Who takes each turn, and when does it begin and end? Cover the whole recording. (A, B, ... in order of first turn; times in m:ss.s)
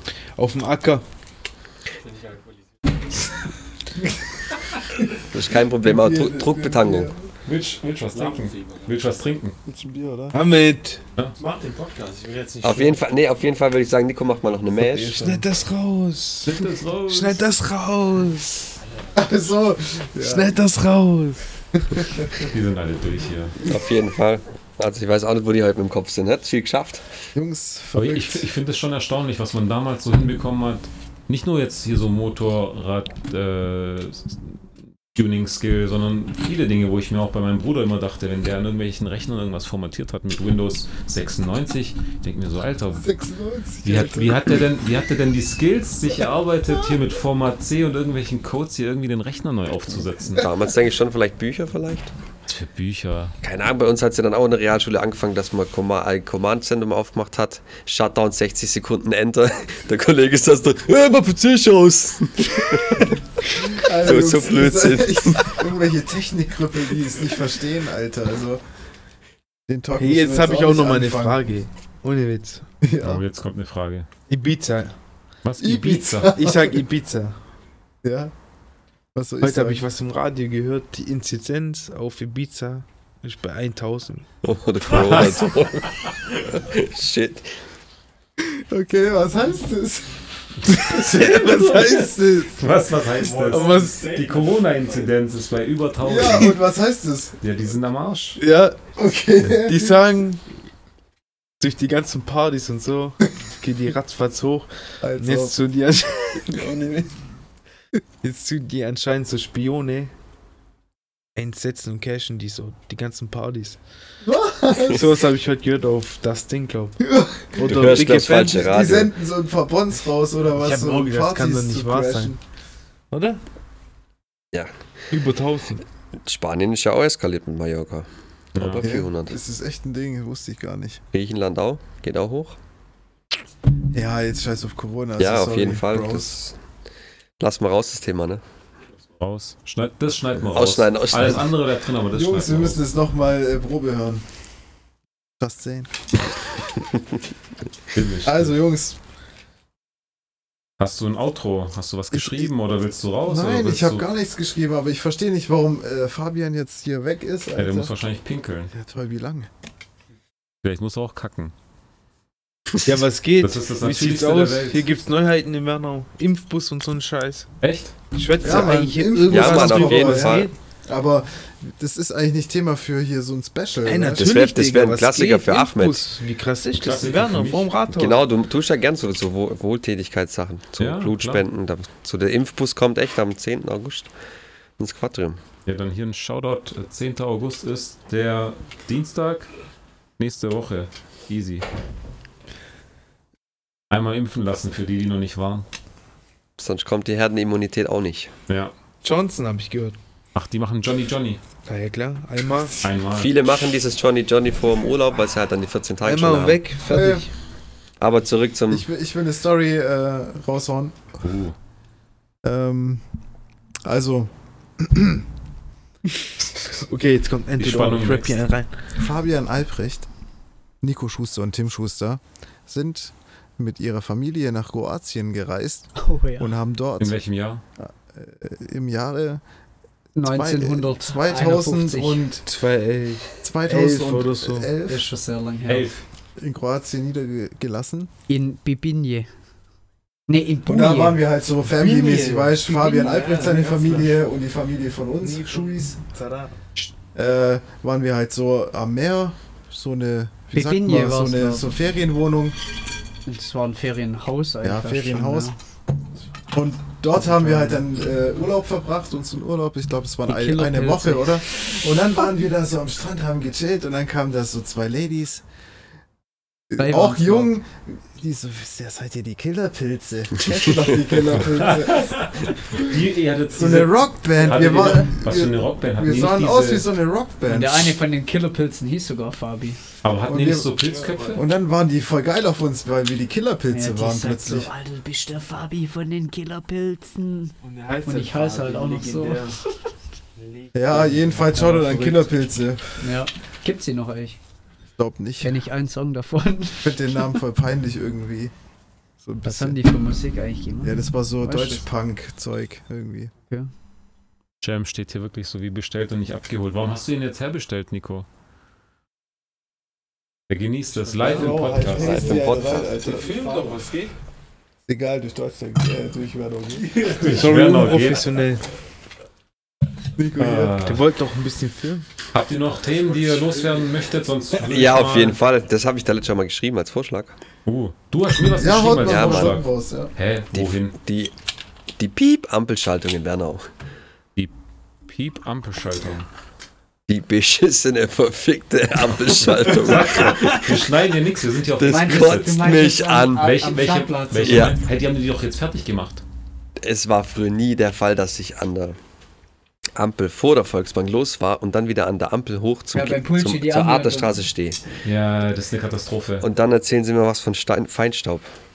0:00.4-0:01.0 A
0:02.0-0:03.3 B
0:05.3-0:07.1 C
0:05.8-0:07.2 D
0:07.5-0:09.6 E
0:08.1-0:09.3 B
0:09.7-0:10.4 D
0:10.3-0:11.0 A
0:11.4-0:13.1 B
0:12.6-0:15.2 C
0:14.8-0:15.4 D
0:15.0-0:18.8 A
0:16.4-0:17.5 E
0:19.2-0:20.5 D
0:20.2-0:22.1 A
0:22.4-0:23.6 E
0:23.6-0:27.1 C
0:27.4-0:28.5 D
0:28.0-0:34.6 E
0:35.1-0:43.1 E
0:43.0-0:44.6 D
0:43.8-0:50.5 E
0:50.3-0:52.1 C
0:52.5-0:53.4 E
0:53.4-1:05.6 C
1:03.7-1:08.6 D
1:09.7-1:11.5 D
1:10.0-1:12.7 A
1:12.8-1:13.2 D
1:13.0-1:14.1 E
1:14.3-1:15.0 A
1:15.4-1:16.3 E
1:15.6-1:16.8 D
1:16.3-1:17.4 A
1:18.0-1:18.3 D
1:19.1-1:19.8 D
1:19.4-1:24.3 A
1:24.4-1:27.5 C
1:24.9-1:25.5 E
1:28.4-1:32.6 D
1:30.7-1:36.6 E
1:33.1-1:35.1 B
1:33.5-1:34.1 A
1:36.0-1:37.4 D
1:37.4-1:38.4 E
1:38.4-1:38.8 A
1:39.0-1:40.0 D
1:39.6-1:40.5 A
1:41.6-1:46.8 A
1:45.0-1:45.6 D
1:46.5-1:47.1 D
1:48.2-1:50.1 A
1:51.4-1:53.8 A
1:54.2-1:55.2 D
1:54.9-1:57.0 A
1:57.0-2:02.4 D
1:57.5-1:58.7 A
1:57.6-1:59.1 C
2:00.6-2:02.3 A
2:03.1-2:03.4 A
2:05.1-2:05.8 A
2:06.2-2:09.4 C
2:08.6-2:08.8 E
2:08.8-2:11.0 D
2:11.1-2:12.6 C
2:13.9-2:16.4 D
2:15.2-2:16.6 C
2:17.4-2:18.4 C
2:19.2-2:22.8 E
2:20.5-2:21.5 C
2:22.1-2:24.2 D
2:25.4-2:25.9 D
2:27.9-2:28.6 E
2:28.2-2:29.0 D
2:30.8-2:34.1 E
2:32.1-2:32.5 D
2:33.3-2:37.9 D
2:37.6-2:38.7 E
2:38.7-2:39.5 D
2:40.6-2:41.5 E
2:42.8-2:47.5 A
2:43.4-2:44.8 E
2:47.6-2:47.9 E
2:48.2-2:50.5 A
2:48.4-2:54.3 D
2:49.2-2:50.5 C
2:53.8-2:58.2 A
2:54.2-2:56.1 C
2:56.8-2:57.8 E
2:57.9-3:04.1 C
3:00.8-3:01.4 E
3:04.8-3:05.4 C
3:05.7-3:09.5 E
3:10.2-3:11.7 E
3:13.9-3:15.7 E
3:16.6-3:18.3 C
3:18.5-3:18.7 E
3:19.0-3:20.0 A
3:20.4-3:21.4 E
3:21.7-3:22.8 A
3:22.8-3:23.3 E
3:23.2-3:26.6 C
3:26.0-3:27.3 A
3:26.9-3:27.2 D
3:28.0-3:28.9 C
3:28.7-3:31.1 D
3:31.2-3:31.6 E
3:32.4-3:33.0 D
3:33.8-3:35.3 D
3:36.2-3:38.9 A
3:37.6-3:38.4 E
3:39.0-3:40.1 D
3:40.8-3:47.2 D
3:46.0-3:46.5 F
3:47.0-3:47.6 E
3:47.8-3:49.4 D
3:50.2-3:52.2 F
3:50.2-3:52.4 D
3:52.4-3:54.7 A
3:53.4-3:55.0 D
3:54.9-3:55.9 F
3:55.7-3:56.0 E
3:56.4-3:58.1 D
3:58.3-3:59.3 F
4:00.3-4:01.2 F
4:00.7-4:05.9 D
4:01.7-4:04.2 A
4:05.2-4:06.6 A
4:07.1-4:12.6 D
4:10.5-4:11.7 F
4:13.3-4:15.6 F
4:14.6-4:15.5 D
4:16.5-4:25.4 D
4:17.2-4:17.8 F
4:20.3-4:21.4 F
4:26.7-4:33.0 D
4:26.8-4:27.5 F
4:31.5-4:36.9 E
4:33.5-4:38.0 D
4:37.5-4:39.8 F
4:40.0-4:41.4 E
4:40.3-4:40.7 D
4:41.3-4:44.7 D
4:43.7-4:49.6 F
4:47.6-4:49.6 A
4:50.4-4:51.2 A
4:50.7-4:53.1 D
4:51.4-4:52.3 F
4:53.0-4:54.4 F
4:55.0-4:55.6 D
4:55.4-4:57.3 F
4:56.8-4:58.5 D
4:59.2-4:59.8 D
4:59.4-5:01.9 F
5:00.8-5:03.3 D
5:04.6-5:08.3 E
5:10.5-5:12.3 E
5:11.2-5:12.4 A
5:11.2-5:13.8 D
5:11.9-5:13.0 C
5:13.0-5:13.8 A
5:13.1-5:14.1 B
5:14.9-5:17.1 D
5:17.0-5:18.3 E
5:17.2-5:18.7 A
5:20.2-5:20.8 D
5:20.4-5:21.0 E
5:20.8-5:22.0 A
5:22.3-5:25.4 E
5:24.6-5:27.4 C
5:27.7-5:31.0 E
5:28.6-5:30.1 D
5:29.0-5:29.6 C
5:30.5-5:31.3 C
5:32.0-5:33.7 C
5:35.1-5:36.3 E
5:37.1-5:40.8 C
5:39.6-5:42.8 E
5:41.8-5:43.5 C
5:41.9-5:44.8 F
5:43.4-5:46.2 E
5:44.5-5:44.8 C
5:46.8-5:49.0 C
5:50.0-5:54.8 C
5:52.9-5:54.4 F
5:55.0-5:56.5 E
5:56.4-5:58.5 C